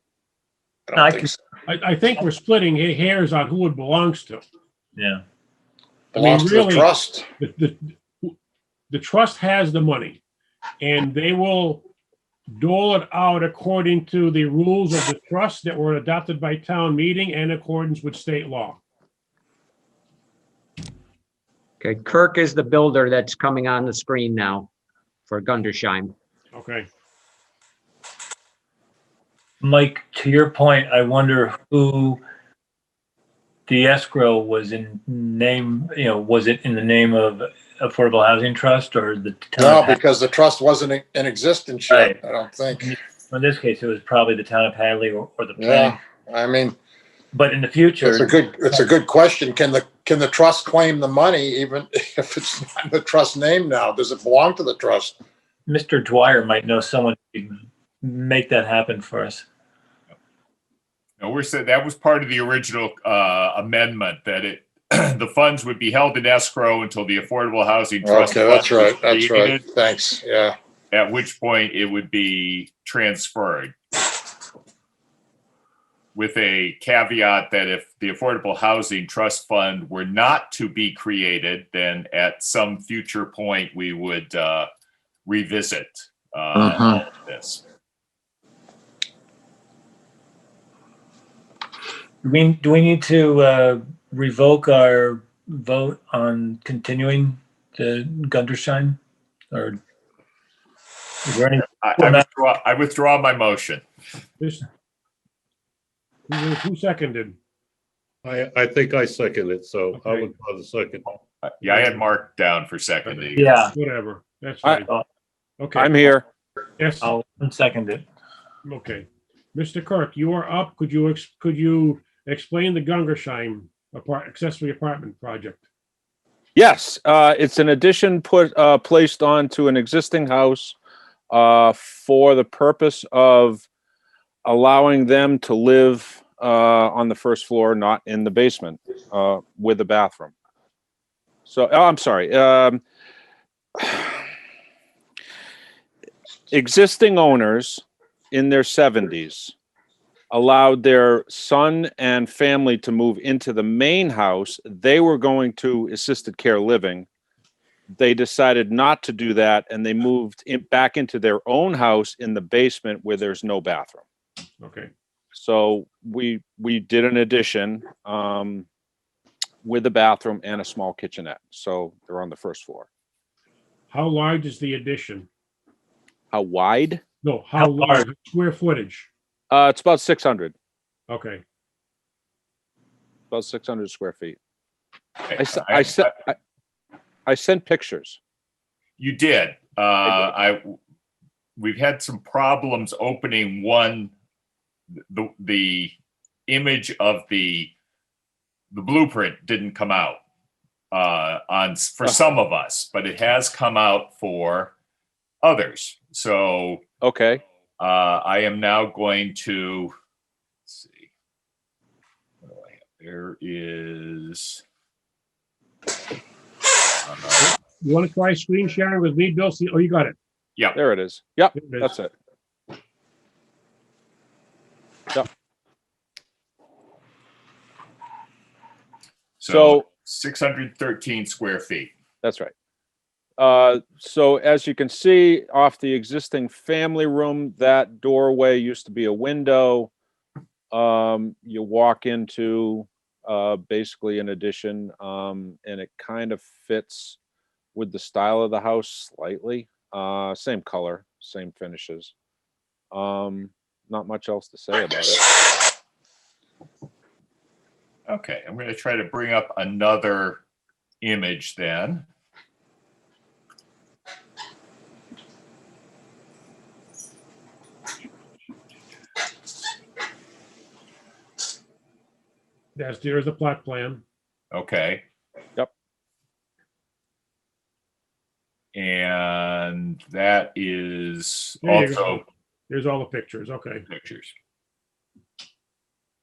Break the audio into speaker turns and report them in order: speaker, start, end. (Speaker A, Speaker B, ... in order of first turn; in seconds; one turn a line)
Speaker A: 0.9-1.3
Speaker B: 0.9-1.3
Speaker C: 1.7-4.4
Speaker B: 5.0-5.2
Speaker A: 6.1-7.3
Speaker C: 6.1-8.3
Speaker C: 8.9-10.2
Speaker C: 10.8-11.8
Speaker C: 12.5-18.8
Speaker D: 21.8-24.7
Speaker D: 25.3-26.1
Speaker C: 26.5-26.9
Speaker B: 29.6-32.2
Speaker B: 33.7-40.0
Speaker A: 39.6-42.9
Speaker B: 41.9-46.0
Speaker A: 45.6-46.8
Speaker B: 47.3-48.9
Speaker A: 48.0-55.2
Speaker B: 55.7-59.4
Speaker E: 61.2-69.6
Speaker A: 68.0-70.5
Speaker E: 70.9-73.7
Speaker E: 76.1-84.7
Speaker E: 85.2-87.6
Speaker A: 86.5-87.0
Speaker B: 92.2-99.0
Speaker B: 99.5-99.8
Speaker B: 101.2-102.2
Speaker E: 101.8-103.8
Speaker C: 104.4-104.6
Speaker C: 106.3-107.4
Speaker F: 108.2-111.2
Speaker C: 109.9-110.3
Speaker E: 111.4-113.4
Speaker C: 111.6-112.0
Speaker C: 113.1-114.9
Speaker B: 113.3-113.7
Speaker C: 115.6-116.2
Speaker G: 115.7-116.2
Speaker C: 116.8-117.1
Speaker B: 117.0-118.0
Speaker C: 118.6-125.6
Speaker G: 126.5-130.8
Speaker G: 131.3-133.6
Speaker G: 134.4-140.3
Speaker G: 141.4-142.8
Speaker G: 143.8-144.2
Speaker G: 146.5-149.5
Speaker G: 150.3-157.1
Speaker G: 157.9-164.0
Speaker C: 164.6-164.9
Speaker G: 165.3-168.7
Speaker G: 169.6-172.9
Speaker C: 173.9-175.3
Speaker G: 176.3-177.0
Speaker C: 177.2-179.1
Speaker B: 177.6-178.0
Speaker G: 179.5-180.5
Speaker C: 181.1-181.4
Speaker G: 183.3-184.4
Speaker E: 185.2-186.1
Speaker G: 185.3-186.4
Speaker G: 187.2-188.2
Speaker E: 189.0-190.8
Speaker G: 190.1-190.3
Speaker E: 191.6-194.1
Speaker E: 195.1-195.9
Speaker E: 196.5-197.7
Speaker E: 198.7-200.2
Speaker E: 200.9-204.7
Speaker E: 205.4-206.8
Speaker G: 207.0-207.4
Speaker E: 207.8-209.9
Speaker E: 210.7-211.1
Speaker E: 212.4-214.6
Speaker E: 217.0-217.5
Speaker C: 217.4-220.2
Speaker G: 220.7-222.1
Speaker C: 221.5-221.9
Speaker E: 229.4-231.9
Speaker G: 229.5-229.9
Speaker G: 232.2-232.5
Speaker G: 233.4-239.9
Speaker G: 240.7-247.2
Speaker G: 247.7-252.1
Speaker G: 252.9-255.2
Speaker E: 258.1-260.4
Speaker E: 261.0-262.1
Speaker C: 272.7-274.0
Speaker E: 274.5-275.0
Speaker E: 278.7-282.2
Speaker C: 281.6-283.8
Speaker E: 283.9-284.3